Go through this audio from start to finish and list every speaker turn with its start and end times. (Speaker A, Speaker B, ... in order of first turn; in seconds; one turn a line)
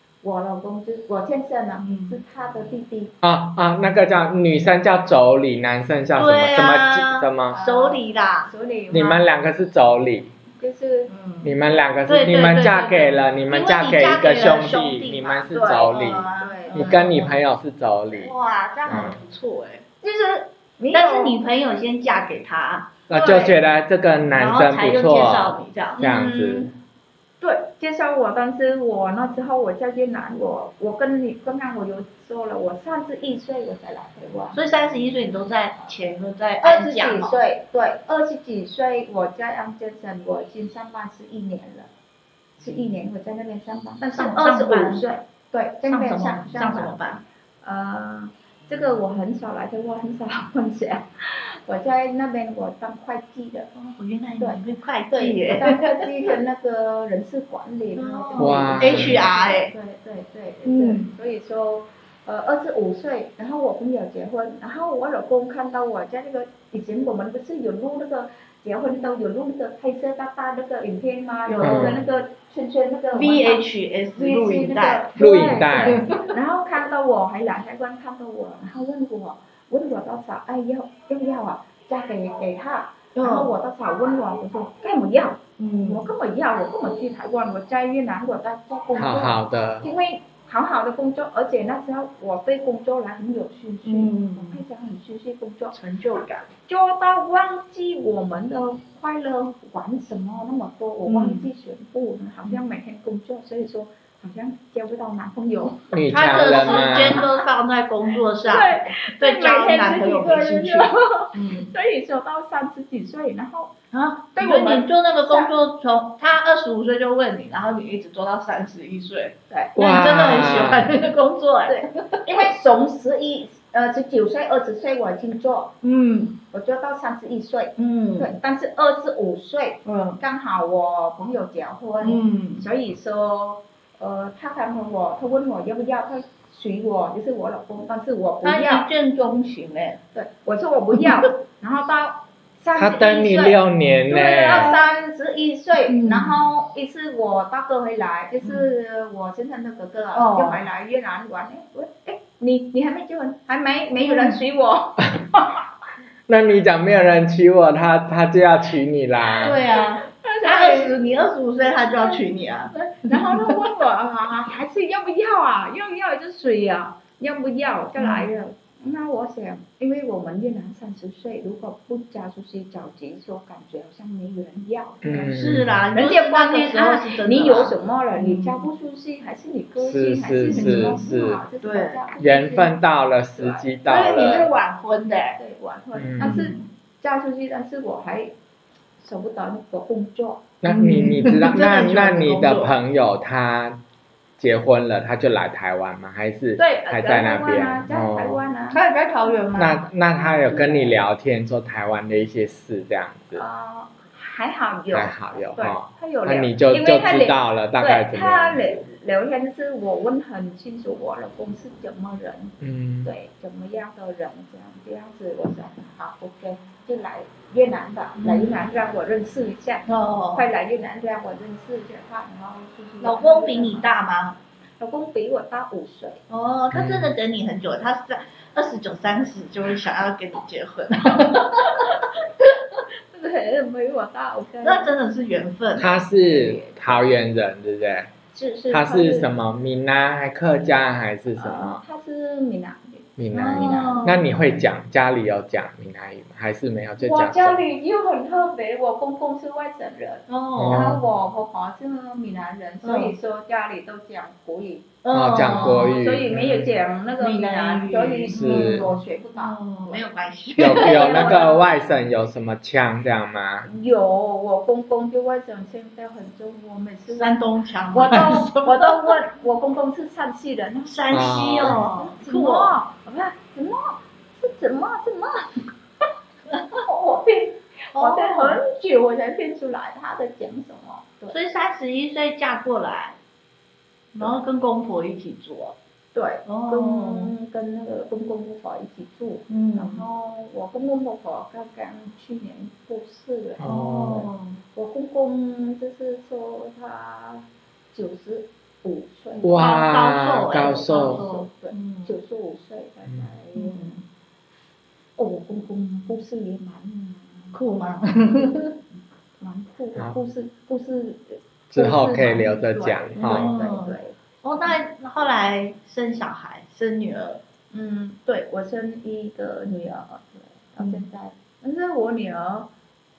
Speaker A: 0.2-3.1
Speaker B: 1.8-2.2
Speaker C: 3.2-7.5
Speaker B: 6.2-8.5
Speaker A: 7.5-9.2
Speaker C: 8.9-10.3
Speaker A: 10.6-11.1
Speaker B: 11.1-11.5
Speaker C: 11.4-18.3
Speaker B: 12.1-17.4
Speaker A: 15.5-16.9
Speaker B: 18.1-19.8
Speaker C: 18.9-19.1
Speaker A: 20.0-21.4
Speaker B: 20.9-22.9
Speaker C: 23.1-26.7
Speaker A: 23.1-23.6
Speaker B: 24.4-26.0
Speaker A: 26.0-26.7
Speaker A: 27.4-34.6
Speaker B: 34.5-37.4
Speaker A: 36.6-41.9
Speaker A: 42.6-47.0
Speaker B: 44.1-45.0
Speaker B: 45.8-47.2
Speaker A: 47.6-53.7
Speaker B: 53.7-56.4
Speaker A: 54.4-73.6
Speaker B: 58.0-59.7
Speaker C: 58.4-59.2
Speaker B: 60.6-61.1
Speaker B: 71.5-72.0
Speaker C: 71.6-72.0
Speaker B: 73.1-75.2
Speaker A: 74.2-95.8
Speaker C: 75.2-76.0
Speaker B: 75.8-76.3
Speaker B: 83.1-83.5
Speaker B: 85.6-86.0
Speaker C: 88.9-89.9
Speaker B: 93.8-94.6
Speaker B: 95.7-96.5
Speaker A: 96.7-107.5
Speaker B: 101.0-101.5
Speaker C: 105.9-107.2
Speaker B: 106.1-111.7
Speaker A: 108.4-113.7
Speaker B: 113.9-122.5
Speaker A: 114.3-115.5
Speaker A: 119.5-119.7
Speaker C: 119.8-120.9
Speaker A: 121.7-125.7
Speaker B: 125.8-126.4
Speaker A: 126.5-138.9
Speaker B: 127.8-128.3
Speaker B: 129.8-130.2
Speaker B: 132.0-132.7
Speaker B: 138.4-140.0
Speaker A: 140.1-155.4
Speaker B: 141.0-141.3
Speaker C: 142.8-144.7
Speaker B: 144.4-144.9
Speaker B: 145.9-146.4
Speaker B: 150.1-150.6
Speaker B: 154.0-154.4
Speaker C: 156.3-159.6
Speaker B: 159.4-163.6
Speaker A: 159.7-161.0
Speaker A: 162.0-162.2
Speaker A: 163.1-182.8
Speaker B: 168.0-168.3
Speaker C: 175.0-175.8
Speaker B: 175.3-178.7
Speaker C: 179.8-181.4
Speaker B: 180.5-181.0
Speaker B: 181.6-182.0
Speaker C: 182.2-184.5
Speaker A: 183.3-184.4
Speaker B: 183.8-185.4
Speaker A: 185.3-188.3
Speaker C: 185.9-186.4
Speaker B: 186.2-186.7
Speaker A: 189.0-190.5
Speaker C: 190.6-193.8
Speaker B: 190.7-192.8
Speaker C: 194.4-198.4
Speaker A: 196.6-198.8
Speaker B: 198.7-199.8
Speaker C: 199.6-203.4
Speaker A: 200.4-201.0
Speaker A: 203.3-223.9
Speaker C: 204.9-208.8
Speaker C: 212.6-213.1
Speaker B: 218.2-218.6
Speaker B: 219.9-220.5
Speaker B: 223.0-224.4
Speaker A: 224.8-226.2
Speaker B: 226.3-231.9
Speaker C: 226.7-227.1
Speaker A: 231.2-232.1
Speaker A: 233.1-234.9
Speaker B: 234.6-235.9
Speaker C: 235.8-238.1
Speaker A: 235.8-237.0
Speaker A: 238.3-239.3
Speaker C: 238.7-241.8
Speaker A: 241.4-244.1
Speaker C: 243.2-247.6
Speaker B: 243.3-244.2
Speaker A: 247.0-254.9
Speaker B: 250.3-251.0
Speaker C: 250.6-251.0
Speaker B: 252.8-253.1
Speaker B: 255.0-256.0
Speaker C: 255.1-256.7
Speaker A: 255.5-261.7
Speaker B: 257.2-261.5
Speaker C: 258.3-258.9
Speaker C: 260.6-263.7
Speaker A: 263.7-267.4
Speaker B: 267.1-269.2
Speaker A: 267.9-275.6
Speaker B: 270.9-272.8
Speaker C: 271.1-271.8
Speaker A: 276.8-281.3
Speaker B: 277.9-278.6
Speaker B: 281.3-283.2
Speaker B: 284.1-285.8
Speaker A: 286.1-293.7
Speaker B: 286.4-287.3
Speaker B: 289.5-290.1
Speaker C: 293.6-294.3
Speaker B: 293.6-294.6
Speaker A: 294.7-299.8
Speaker C: 299.4-301.2
Speaker B: 299.6-302.1
Speaker A: 300.5-304.0
Speaker B: 303.5-304.0
Speaker A: 305.2-307.5
Speaker B: 307.5-308.8
Speaker A: 309.4-314.8
Speaker C: 311.7-313.5
Speaker B: 313.2-317.4
Speaker A: 317.7-322.7